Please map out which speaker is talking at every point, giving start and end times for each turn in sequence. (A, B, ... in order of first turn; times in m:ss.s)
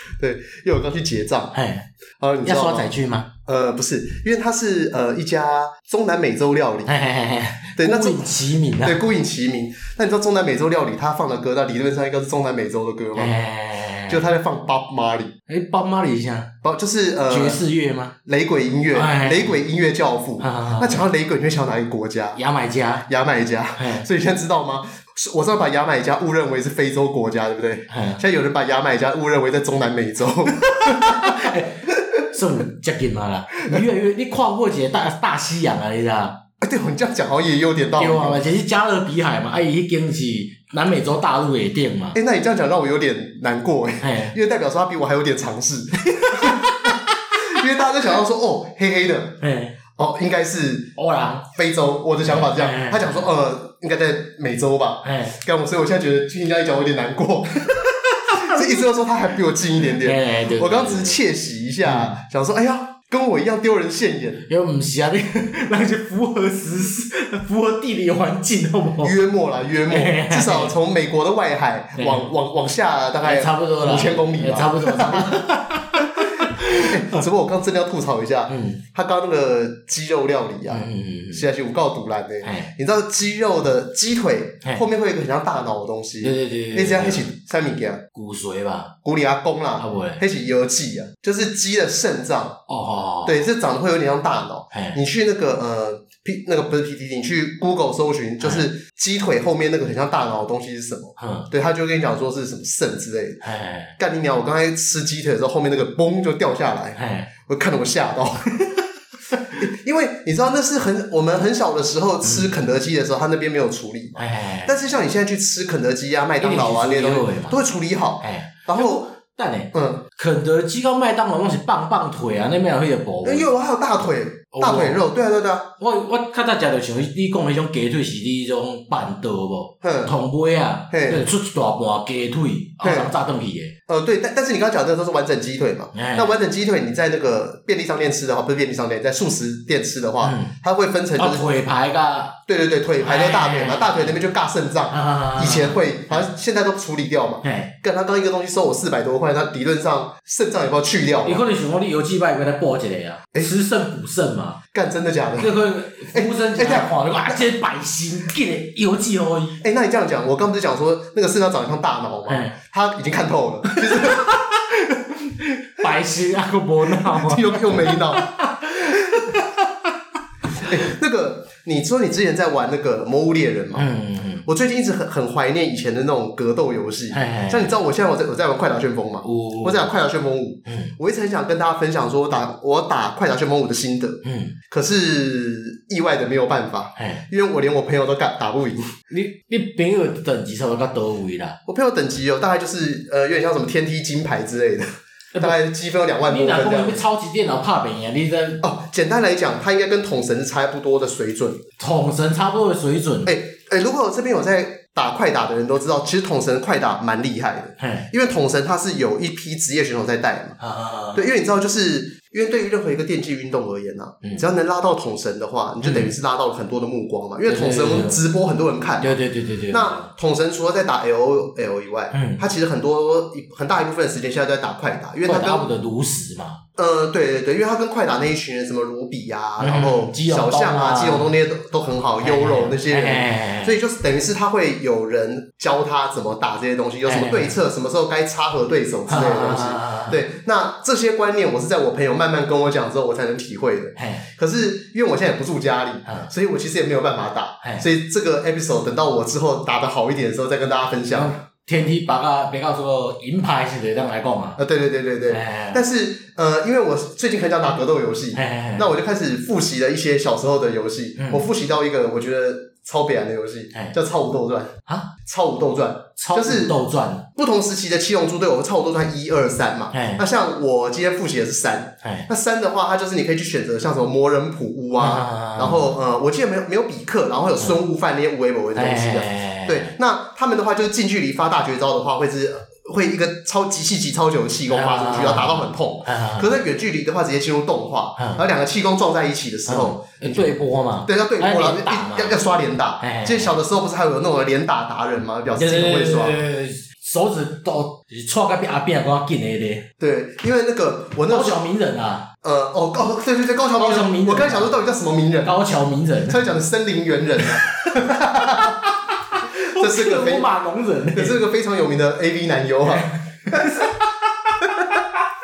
0:00.2-0:01.5 A
0:01.5-0:01.9 B
0:02.2-0:02.9 A
0:02.4-0:03.3 B
0:03.4-0:06.9 A
0:06.8-0:09.0 B
0:07.8-0:13.3 A
0:13.2-0:14.2 B
0:14.1-0:15.3 A
0:15.5-0:16.5 B
0:16.6-0:17.6 A
0:17.3-0:18.1 B
0:18.2-0:22.4 A
0:18.9-0:19.6 B
0:20.4-0:21.0 B
0:22.3-0:23.0 B
0:23.1-0:31.6 A
0:23.8-0:24.0 B
0:27.9-0:28.2 B
0:30.6-0:36.4 B
0:36.6-0:38.4 A
0:38.0-0:42.2 B
0:42.1-0:49.4 A
0:44.0-0:44.3 B
0:46.1-0:46.9 B
0:49.4-0:49.8 B
0:50.0-0:50.9 A
0:51.0-0:51.4 B
0:51.5-0:57.7 A
0:52.2-0:53.2 B
0:55.0-0:55.4 B
0:57.8-0:58.7 B
0:58.3-1:04.4 A
0:59.8-1:01.2 B
1:01.8-1:02.2 B
1:04.5-1:09.2 B
1:09.0-1:15.4 A
1:09.9-1:10.7 B
1:12.0-1:12.3 B
1:13.2-1:17.2 B
1:16.2-1:28.0 A
1:18.5-1:18.8 B
1:20.7-1:21.5 B
1:22.4-1:22.7 B
1:26.2-1:27.3 B
1:28.1-1:28.9 B
1:29.0-1:32.6 A
1:29.8-1:30.2 B
1:32.7-1:33.5 B
1:33.2-1:43.4 A
1:34.7-1:35.0 B
1:38.4-1:38.7 B
1:41.2-1:41.5 B
1:43.4-1:43.9 B
1:44.0-1:48.7 A
1:47.0-1:47.3 B
1:49.5-1:59.1 A
1:52.2-1:52.5 B
1:54.2-1:54.7 B
1:56.4-1:57.6 B
1:58.2-2:03.5 B
1:59.7-2:00.0 A
2:03.2-2:05.7 A
2:04.5-2:05.0 B
2:05.8-2:13.7 B
2:09.8-2:10.1 A
2:10.9-2:11.2 A
2:12.8-2:13.1 A
2:13.9-2:21.5 A
2:15.9-2:16.3 B
2:20.2-2:20.5 B
2:21.2-2:22.4 B
2:22.5-2:31.4 A
2:23.0-2:24.2 B
2:24.9-2:26.2 B
2:27.4-2:27.7 B
2:31.2-2:34.6 B
2:34.7-2:35.5 A
2:35.4-2:39.6 B
2:36.1-2:37.4 A
2:39.6-2:44.3 A
2:42.3-2:42.6 B
2:43.6-2:49.6 B
2:46.9-2:48.2 A
2:48.9-2:49.2 A
2:50.6-2:53.9 A
2:53.7-2:54.5 B
2:54.4-3:08.9 A
2:57.1-2:57.7 B
2:59.2-2:59.9 B
3:00.6-3:00.9 B
3:04.2-3:04.5 B
3:07.0-3:07.2 B
3:09.1-3:11.6 B
3:11.7-3:14.9 A
3:15.3-3:15.6 B
3:15.4-3:17.0 A
3:16.2-3:18.6 B
3:18.6-3:21.6 A
3:21.8-3:23.3 B
3:23.2-3:30.6 A
3:27.8-3:28.1 B
3:30.6-3:31.2 B
3:31.1-3:39.1 A
3:35.8-3:36.1 B
3:37.5-3:38.2 B
3:39.0-3:40.1 B
3:39.7-3:45.6 A
3:42.1-3:42.4 B
3:45.2-3:46.6 B
3:46.8-4:11.3 A
3:49.6-3:51.3 B
3:52.2-3:53.8 B
3:57.0-3:57.5 B
3:59.1-4:00.2 B
4:04.0-4:04.2 B
4:06.0-4:06.3 B
4:11.1-4:14.6 B
4:14.6-4:26.8 A
4:15.3-4:15.8 B
4:18.3-4:18.9 B
4:21.2-4:21.4 B
4:26.2-4:27.2 B
4:27.4-4:50.5 A
4:29.9-4:30.2 B
4:32.0-4:32.3 B
4:35.0-4:35.9 B
4:38.8-4:39.9 B
4:44.7-4:46.6 B
4:48.2-4:48.4 B
4:49.7-4:52.4 B
4:51.0-4:56.4 A
4:53.0-4:53.5 B
4:55.6-4:59.8 B
5:00.0-5:01.6 A
5:01.3-5:02.3 B
5:02.4-5:05.5 A
5:03.8-5:04.7 B
5:05.4-5:06.4 B
5:06.3-5:08.8 A
5:07.4-5:08.7 B
5:09.4-5:11.4 B
5:09.7-5:10.5 A
5:11.1-5:13.8 A
5:12.9-5:15.1 B